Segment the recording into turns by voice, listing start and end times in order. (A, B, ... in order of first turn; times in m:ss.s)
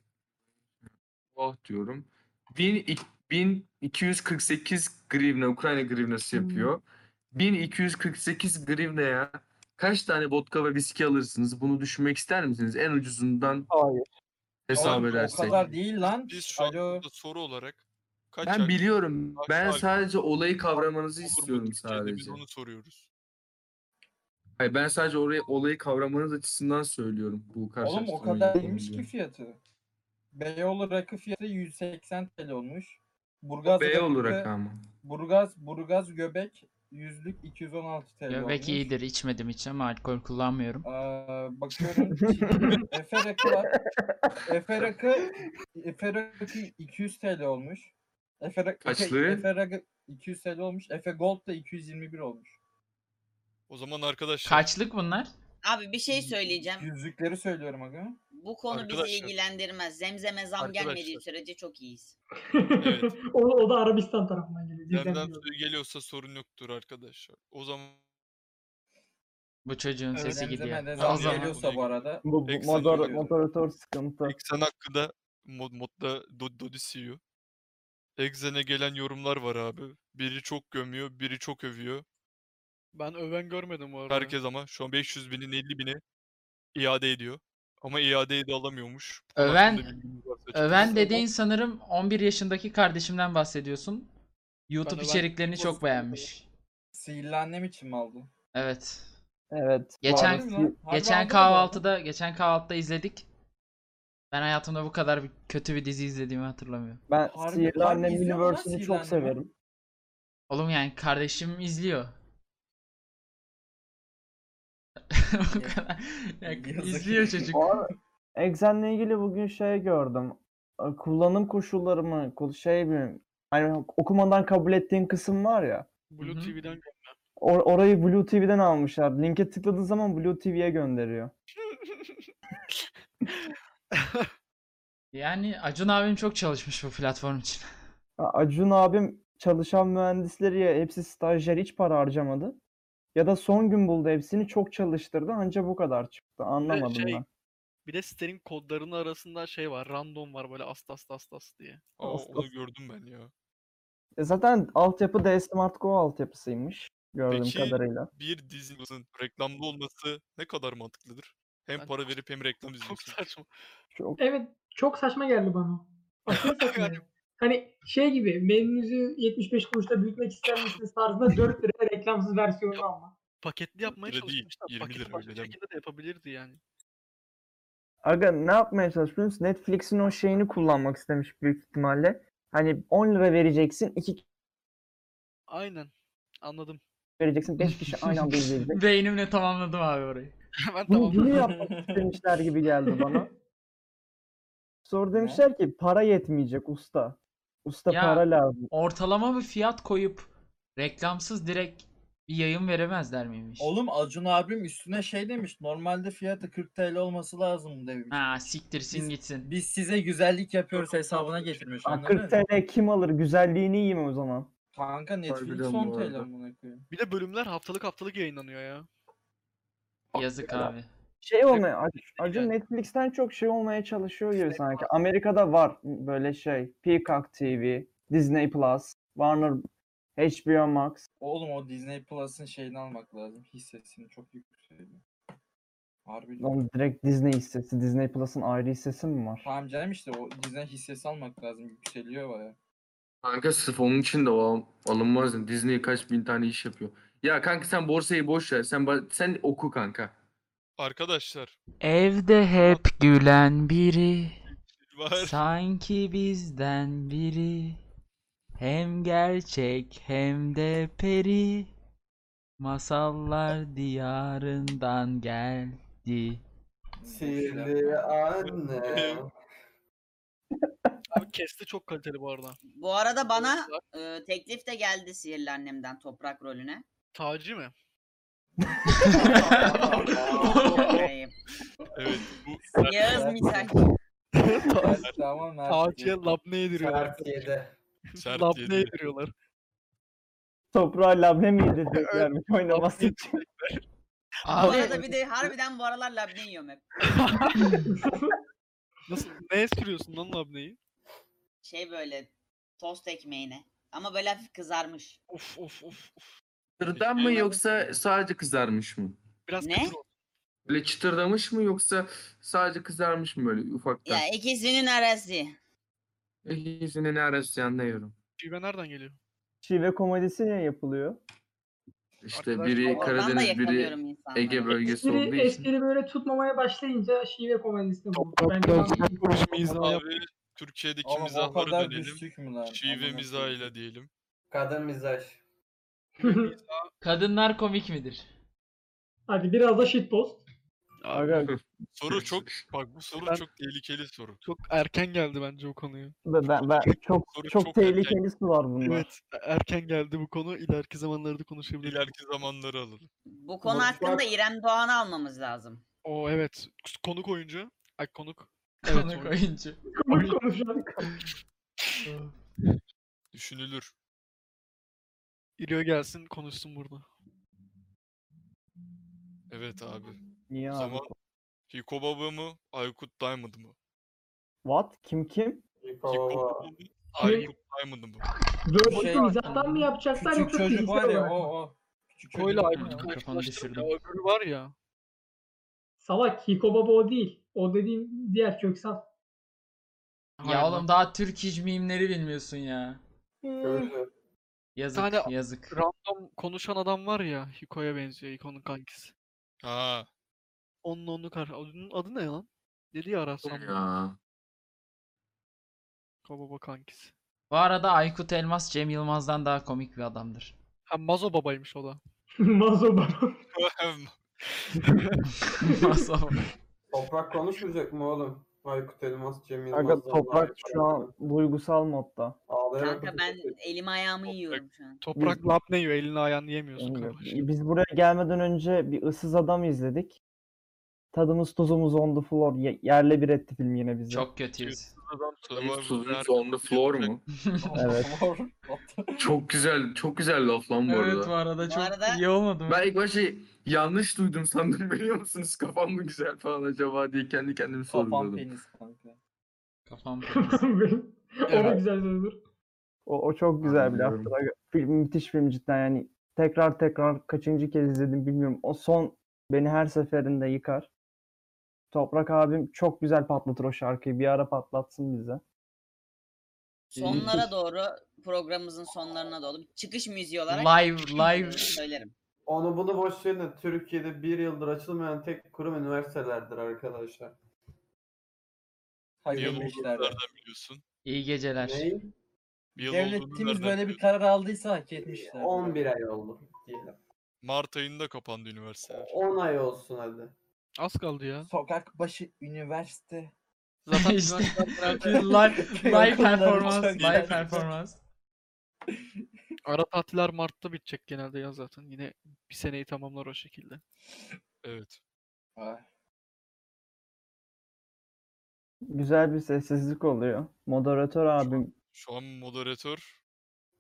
0:01.3-0:13.7 A
0:06.3-0:06.7 B
0:13.7-0:14.1 B
0:14.7-0:15.6 A
0:14.7-0:17.0 C
0:14.7-0:18.8 D
0:18.4-0:22.4 A
0:19.4-0:19.9 D
0:21.2-0:23.1 D
0:24.6-0:29.1 A
0:27.8-0:29.6 C
0:30.3-0:34.5 C
0:33.7-0:34.9 A
0:35.0-0:38.9 C
0:38.3-0:40.9 E
0:40.8-0:43.8 C
0:42.3-0:42.8 B
0:43.4-0:44.2 B
0:44.4-0:52.6 C
0:48.8-0:49.5 A
0:53.7-0:54.7 D
0:54.4-0:55.3 E
0:55.6-0:56.9 F
0:56.1-0:58.2 C
0:58.3-1:02.2 F
0:58.7-0:59.3 D
1:00.6-1:01.2 D
1:02.5-1:05.4 G
1:02.8-1:03.2 D
1:04.9-1:08.0 D
1:09.6-1:11.5 E
1:10.2-1:13.4 C
1:11.0-1:13.2 D
1:12.2-1:14.4 B
1:14.2-1:17.2 D
1:18.2-1:22.0 D
1:22.9-1:24.4 H
1:24.1-1:26.0 D
1:26.8-1:31.1 D
1:29.4-1:29.9 E
1:30.5-1:34.1 E
1:34.7-1:36.5 E
1:34.8-1:36.3 H
1:36.9-1:38.3 C
1:38.6-1:39.1 E
1:39.5-1:40.8 B
1:40.0-1:43.3 E
1:40.0-1:41.8 C
1:44.3-1:47.0 E
1:47.1-1:49.5 B
1:47.3-1:49.4 C
1:50.5-1:52.1 E
1:55.1-1:57.7 E
1:56.4-1:57.5 C
1:57.5-2:05.9 B
2:06.1-2:07.2 H
2:06.2-2:06.6 E
2:07.4-2:11.3 B
2:11.9-2:12.2 H
2:14.0-2:14.3 H
2:15.1-2:17.7 E
2:18.2-2:22.6 B
2:23.2-2:27.3 B
2:26.6-2:27.2 H
2:27.9-2:31.9 H
2:32.0-2:33.3 D
2:32.0-2:32.5 B
2:34.2-2:38.1 B
2:37.3-2:43.2 D
2:42.8-2:43.5 H
2:43.9-2:44.2 B
2:44.2-2:53.2 G
2:46.3-2:47.0 H
2:53.4-2:56.6 H
2:53.8-2:55.6 D
2:58.0-3:04.2 B
3:05.5-3:06.8 H
3:07.2-3:08.8 B
3:07.7-3:10.3 E
3:10.7-3:11.5 H
3:10.9-3:13.3 B
3:11.5-3:12.0 C
3:14.9-3:18.7 B
3:15.1-3:15.4 C
3:17.9-3:23.7 E
3:23.6-3:28.2 C
3:28.1-3:29.5 E
3:28.9-3:32.4 C
3:30.8-3:31.7 H
3:31.8-3:34.5 B
3:34.7-3:36.9 C
3:35.3-3:36.3 A
3:36.9-3:38.9 H
3:40.1-3:40.9 E
3:40.5-3:49.6 B
3:42.2-3:42.5 H
3:44.3-3:44.9 H
3:50.2-3:51.0 B
3:51.2-3:55.0 C
3:56.1-3:56.6 C
3:56.4-3:59.5 B
3:59.4-4:02.6 C
4:03.2-4:10.1 A
4:10.8-4:11.6 D
4:11.8-4:14.4 E
4:14.8-4:15.4 D
4:15.2-4:17.8 E
4:18.6-4:21.7 E
4:22.6-4:26.4 E
4:27.0-4:28.0 C
4:27.1-4:29.3 I
4:28.9-4:29.2 D
4:31.1-4:32.6 H
4:32.7-4:36.8 F
4:33.3-4:33.8 H
4:37.1-4:37.7 H
4:39.0-4:41.0 I
4:39.1-4:40.8 E
4:40.5-4:41.3 F
4:42.0-4:43.3 D
4:42.8-4:43.8 F
4:43.0-4:43.8 C
4:44.4-4:45.1 H
4:44.8-4:46.3 C
4:45.7-4:47.5 H
4:46.8-4:47.8 I
4:48.1-4:49.3 H
4:48.2-4:49.0 D
4:50.7-4:53.3 B
4:51.8-4:53.8 H
4:54.4-4:55.1 E
4:54.5-4:55.0 H
4:54.6-4:56.8 F
4:57.0-4:58.0 H
4:57.8-4:58.3 G
4:59.1-5:00.8 H
5:01.6-5:05.2 F
5:05.3-5:06.3 H
5:06.8-5:09.2 A
5:06.9-5:07.5 D
5:09.5-5:10.1 H
5:09.6-5:10.0 F
5:10.7-5:14.2 A
5:14.0-5:15.6 F
5:16.4-5:18.2 A
5:18.4-5:19.2 H
5:19.6-5:21.2 B
5:22.2-5:25.7 A
5:22.3-5:23.3 H
5:22.9-5:24.9 F
5:24.9-5:29.3 G
5:28.1-5:30.1 H
5:29.5-5:34.1 D
5:31.0-5:33.7 C
5:34.5-5:35.4 I
5:36.2-5:36.9 H
5:36.2-5:36.5 G
5:37.0-5:38.3 E
5:39.3-5:40.4 G
5:41.1-5:41.5 H
5:41.1-5:41.5 B
5:42.0-5:44.4 D
5:42.1-5:42.6 A
5:44.4-5:46.2 H
5:46.3-5:49.1 B
5:47.3-5:48.2 D
5:48.8-5:52.1 H
5:51.8-5:53.1 D
5:53.3-5:55.8 F
5:53.6-5:54.3 I
5:56.0-5:59.4 H
5:58.8-5:59.8 E
5:59.9-6:00.8 G
6:03.3-6:03.9 D
6:05.6-6:07.1 H
6:09.5-6:10.2 D
6:10.5-6:11.1 B
6:10.7-6:11.1 D
6:11.7-6:13.8 D
6:14.6-6:15.6 B
6:15.8-6:16.7 I
6:16.1-6:18.3 D
6:17.2-6:17.5 G
6:17.2-6:17.5 H
6:18.6-6:21.5 G
6:18.8-6:23.1 C
6:22.3-6:24.7 H
6:22.7-6:23.9 E
6:26.0-6:29.0 G
6:30.4-6:30.9 H
6:30.4-6:33.0 E
6:33.6-6:34.1 I
6:34.8-6:35.8 E
6:34.9-6:39.1 H
6:39.6-6:40.1 D
6:40.8-6:43.8 H
6:43.4-6:44.2 A
6:46.2-6:47.1 H
6:47.5-6:50.6 E
6:50.9-6:52.0 H
6:52.4-6:53.4 G
6:53.6-6:54.2 D
6:55.6-6:56.4 E
6:56.9-7:01.1 I
6:59.7-7:02.4 B
7:02.5-7:03.6 I
7:02.8-7:05.0 F
7:04.3-7:04.6 D
7:05.0-7:07.5 H
7:05.2-7:05.4 B
7:06.8-7:10.2 B
7:11.1-7:14.3 B
7:14.1-7:14.9 E
7:14.6-7:17.2 D
7:15.5-7:17.2 A
7:17.4-7:17.9 E
7:17.6-7:19.3 C
7:17.8-7:18.1 B
7:19.2-7:21.3 A
7:20.9-7:22.9 E
7:21.6-7:22.2 F
7:22.7-7:28.4 A
7:27.9-7:29.2 C
7:29.9-7:30.6 E
7:30.3-7:32.4 G
7:31.5-7:31.8 H
7:33.1-7:40.9 B
7:33.6-7:34.3 A
7:41.9-7:45.4 B
7:47.0-7:52.1 F
7:50.5-7:51.8 E
7:52.5-7:57.4 I
7:59.2-8:00.2 C
7:59.3-7:59.8 I
7:59.3-8:00.8 D
8:01.0-8:01.9 E
8:01.6-8:02.1 I
8:02.8-8:04.0 D
8:02.8-8:05.8 C
8:05.0-8:07.0 I
8:07.4-8:09.2 D
8:08.9-8:10.3 I
8:10.8-8:11.5 H
8:11.5-8:13.3 C
8:13.9-8:15.7 H
8:13.9-8:18.0 E
8:15.1-8:17.7 C
8:19.7-8:23.8 H
8:24.6-8:25.0 D
8:25.6-8:25.8 C
8:28.9-8:31.7 B
8:31.4-8:33.2 D